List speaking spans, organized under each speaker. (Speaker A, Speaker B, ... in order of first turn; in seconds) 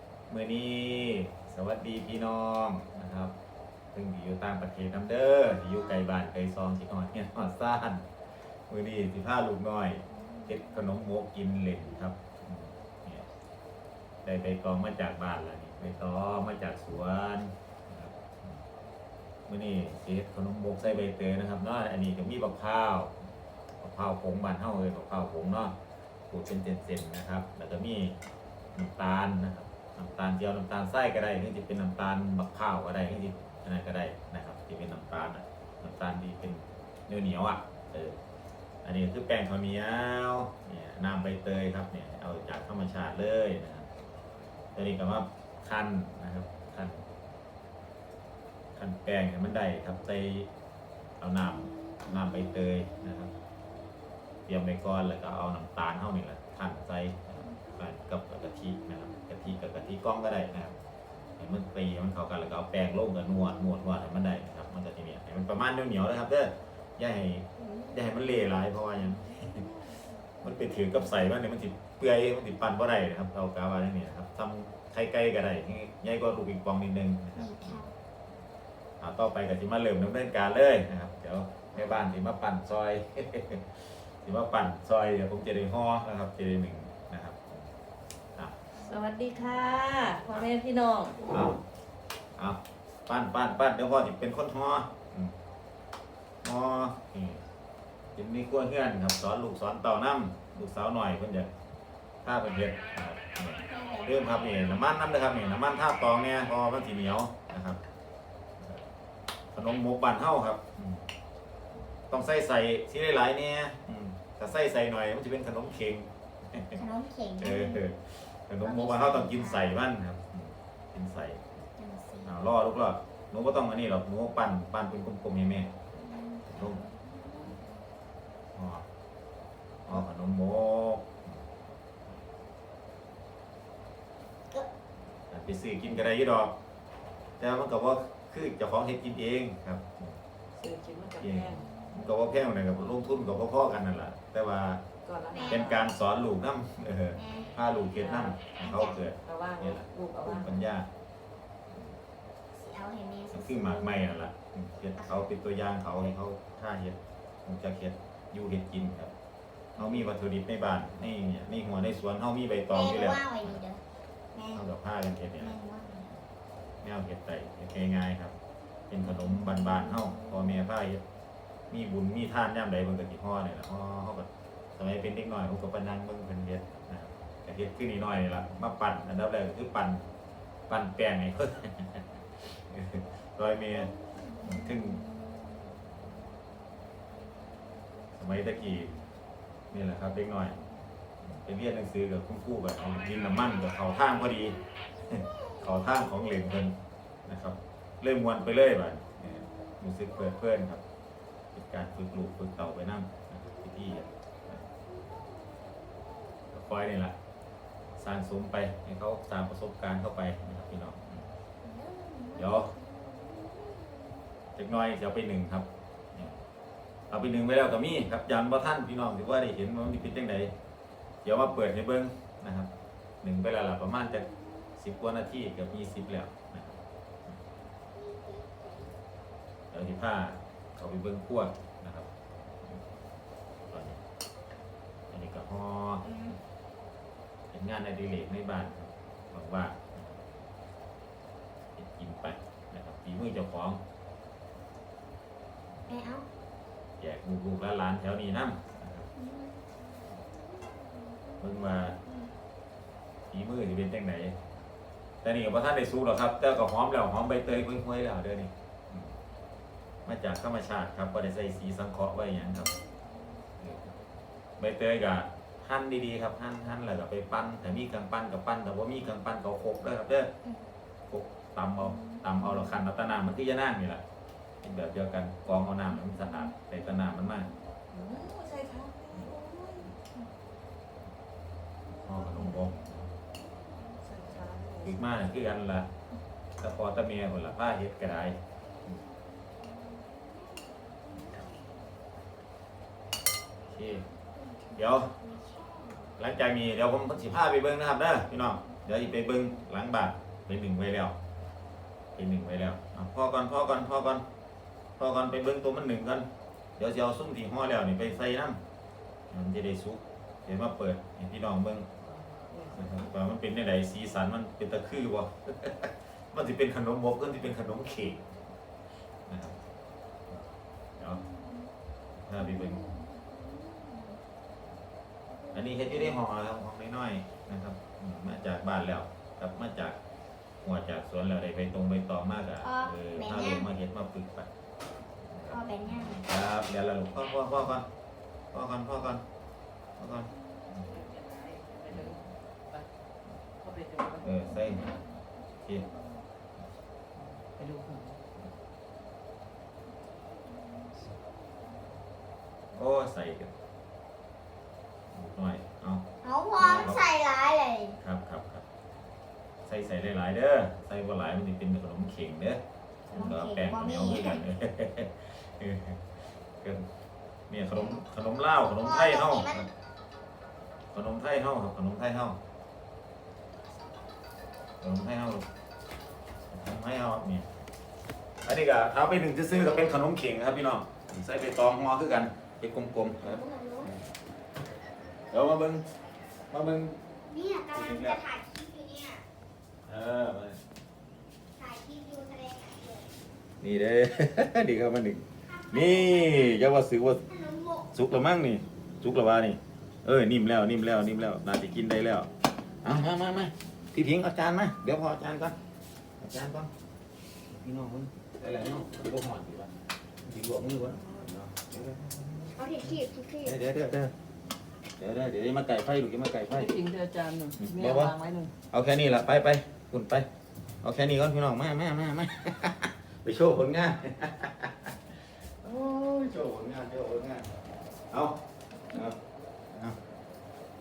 Speaker A: 0.3-3.3, 3.9-8.0, 8.7-13.3, 14.2-18.6, 19.5-23.1, 23.8-25.7, 26.3-28.1, 28.7-38.2, 38.8-43.9, 44.7-47.0, 48.8-50.5, 51.2-53.3, 54.5-60.8, 61.4-69.7, 70.4-77.8, 79.0-87.7, 90.2-90.5, 91.2-91.6, 92.4-95.3, 96.4-97.4, 98.1-101.5, 102.2-107.8, 109.5-111.0, 112.1-116.8, 117.4-121.4, 122.2-126.8, 128.5-128.8, 129.8-131.3, 135.3-136.6, 137.4-140.2, 141.2-144.8, 145.5-150.9, 151.7-151.9, 153.3-159.1, 159.8-163.6, 164.5-165.6, 166.8-168.3, 168.9-171.0, 171.7-180.0, 180.7-183.9, 184.4-185.0, 188.1-188.9, 189.7-190.6, 191.2-194.6, 195.1-200.8, 201.5-204.6, 206.5-207.1, 208.0-211.3, 212.3-212.7, 214.5-216.4, 217.1-220.5, 221.2-222.7, 223.2-224.3, 224.8-227.4, 229.7-232.1, 233.7-234.0, 235.1-236.1, 237.5-240.2, 241.7-243.8, 247.0-249.1, 251.4-252.0, 253.3-254.3, 255.2-259.1, 260.0-262.7, 263.6-263.9, 264.6-270.3, 271.1-274.0, 274.6-277.5, 281.9-283.1, 284.8-285.9, 286.6-288.4, 293.7-294.0, 294.7-295.1, 296.2-301.1, 302.1-304.2, 305.0-308.6, 309.3-311.9, 312.7-318.4, 319.3-319.6, 322.2-322.8, 325.5-330.0, 330.6-334.5, 335.2-337.9, 338.5-339.2, 340.0-340.9, 344.2-345.0, 352.7-353.5, 355.1-356.0, 356.6-357.1, 358.0-358.6, 359.6-362.6, 363.1-366.0, 366.6-366.9, 367.5-369.7, 370.9-372.4, 374.8-375.4, 376.5-377.4, 378.4-384.0, 385.3-385.8, 386.5-387.0, 387.7-388.2, 389.9-390.6, 393.6-397.2, 397.9-402.3, 402.8-405.5, 406.2-406.7, 407.5-409.7, 410.2-412.6, 413.4-414.1, 415.0-416.8, 417.6-418.1, 418.7-420.3, 420.8-424.9, 425.6-427.5, 428.1-428.4, 428.9-429.1
Speaker B: 10.2-10.7, 51.8-52.1, 77.3-77.9, 103.6-104.6, 116.8-117.8, 118.6-119.8, 121.8-122.3, 126.0-127.6, 145.3-145.6, 147.2-147.5, 148.6-149.1, 152.5-154.1, 159.8-160.1, 162.7-163.8, 164.3-164.7, 165.4-166.1, 169.0-170.7, 183.7-185.6, 205.1-206.4, 211.6-214.2, 224.3-224.7, 227.9-228.9, 245.9-246.2, 249.1-249.7, 250.6-252.3, 271.9-272.8, 276.2-276.5, 289.6-291.1, 293.8-296.1, 321.1-321.7, 322.4-324.2, 325.4-326.1, 332.6-333.7, 335.5-336.3, 350.5-351.1, 356.2-358.0, 363.1-364.4, 367.8-368.0, 368.8-369.7, 383.2-383.9, 387.3-389.2, 391.6-393.1, 395.5-396.6, 397.3-397.9, 412.6-413.5
Speaker C: 88.8-91.2, 140.6-141.7, 145.0-145.9, 147.9-148.4, 149.2-150.6, 277.9-280.0, 284.0-285.0, 312.0-313.1, 340.8-342.9, 343.6-344.3, 347.6-348.2, 416.5-418.5